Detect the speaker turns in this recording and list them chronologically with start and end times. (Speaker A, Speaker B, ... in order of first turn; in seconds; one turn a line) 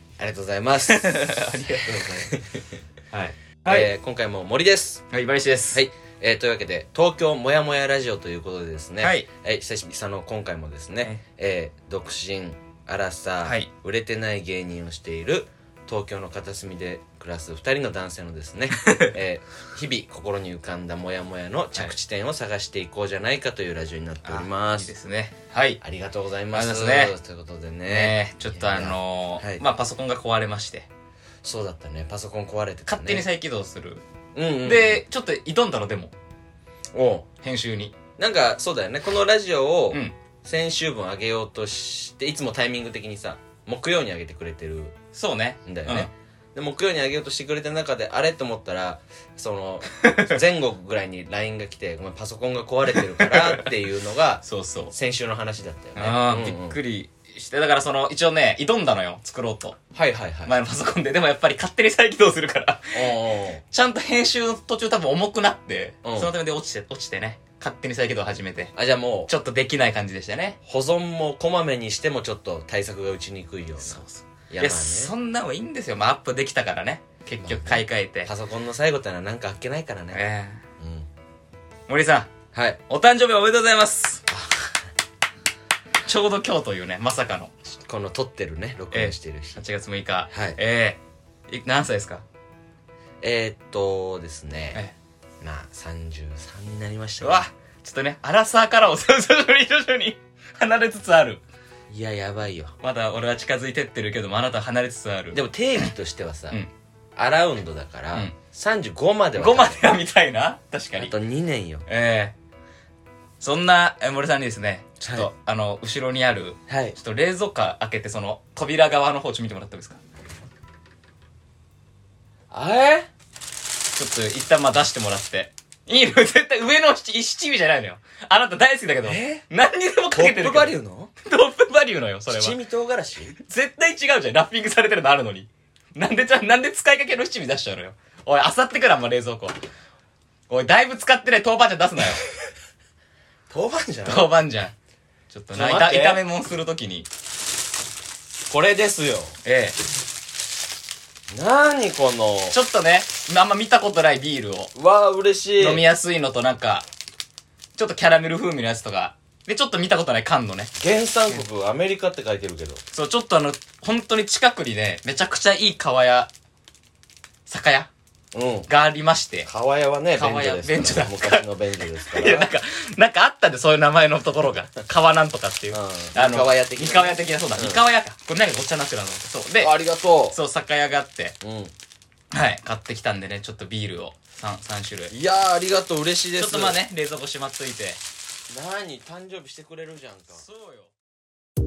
Speaker A: 0.2-2.6
Speaker B: 0.9-2.3
Speaker B: 3.1-3.9
Speaker A: 3.7-5.1
Speaker B: 5.1-5.8
Speaker A: 5.7-24.9
Speaker B: 9.0-9.3
Speaker B: 13.4-13.7
Speaker B: 18.8-19.1
Speaker B: 24.2-25.8
Speaker A: 25.8-29.6
Speaker B: 26.5-27.1
Speaker B: 27.9-30.9
Speaker A: 31.4-33.3
Speaker B: 32.9-34.0
Speaker A: 34.4-35.0
Speaker B: 34.6-36.1
Speaker A: 36.9-37.3
Speaker B: 37.4-38.0
Speaker A: 38.2-45.0
Speaker B: 45.1-46.1
Speaker A: 45.7-56.8
Speaker B: 50.0-50.4
Speaker B: 53.0-53.7
Speaker B: 54.4-54.9
Speaker B: 56.0-59.8
Speaker A: 59.9-60.5
Speaker B: 60.5-63.1
Speaker A: 62.9-63.6
Speaker B: 63.7-68.7
Speaker A: 66.0-66.3
Speaker A: 68.7-69.3
Speaker B: 69.3-70.6
Speaker A: 70.7-75.1
Speaker B: 73.8-78.3
Speaker A: 77.4-80.2
Speaker B: 80.1-80.6
Speaker A: 80.8-81.1
Speaker B: 81.9-82.3
Speaker A: 82.5-82.8
Speaker B: 82.9-84.2
Speaker A: 84.3-84.8
Speaker B: 86.1-87.5
Speaker A: 87.8-89.6
Speaker B: 88.9-92.2
Speaker A: 90.3-90.6
Speaker A: 93.2-94.8
Speaker A: 95.4-97.4
Speaker B: 97.2-101.4
Speaker A: 101.9-102.8
Speaker B: 102.8-105.4
Speaker A: 105.3-106.6
Speaker A: 107.2-109.9
Speaker B: 109.4-111.1
Speaker A: 111.0-111.8
Speaker B: 111.9-112.3
Speaker B: 113.4-120.0
Speaker A: 115.0-115.3
Speaker A: 116.7-117.0
Speaker A: 122.5-123.1
Speaker B: 124.0-132.6
Speaker A: 129.0-129.4
Speaker A: 130.1-131.1
Speaker A: 132.3-133.4
Speaker B: 133.4-139.6
Speaker B: 140.5-142.2
Speaker A: 143.5-144.3
Speaker B: 144.1-144.7
Speaker B: 145.3-147.1
Speaker A: 145.5-146.2
Speaker A: 148.5-149.4
Speaker B: 149.4-149.8
Speaker A: 151.3-152.6
Speaker B: 152.5-154.7
Speaker A: 154.8-155.8
Speaker B: 155.6-156.9
Speaker B: 157.8-160.7
Speaker A: 160.8-162.8
Speaker B: 162.9-166.3
Speaker B: 167.5-167.9
Speaker A: 168.3-168.7
Speaker B: 168.7-169.5
Speaker A: 169.5-172.5
Speaker B: 170.2-171.5
Speaker B: 172.0-179.8
Speaker A: 175.7-177.8
Speaker A: 179.6-180.4
Speaker B: 180.3-181.4
Speaker A: 181.4-181.7
Speaker B: 182.3-185.1
Speaker A: 185.1-186.8
Speaker B: 186.4-188.0
Speaker A: 188.5-190.4
Speaker B: 190.3-190.9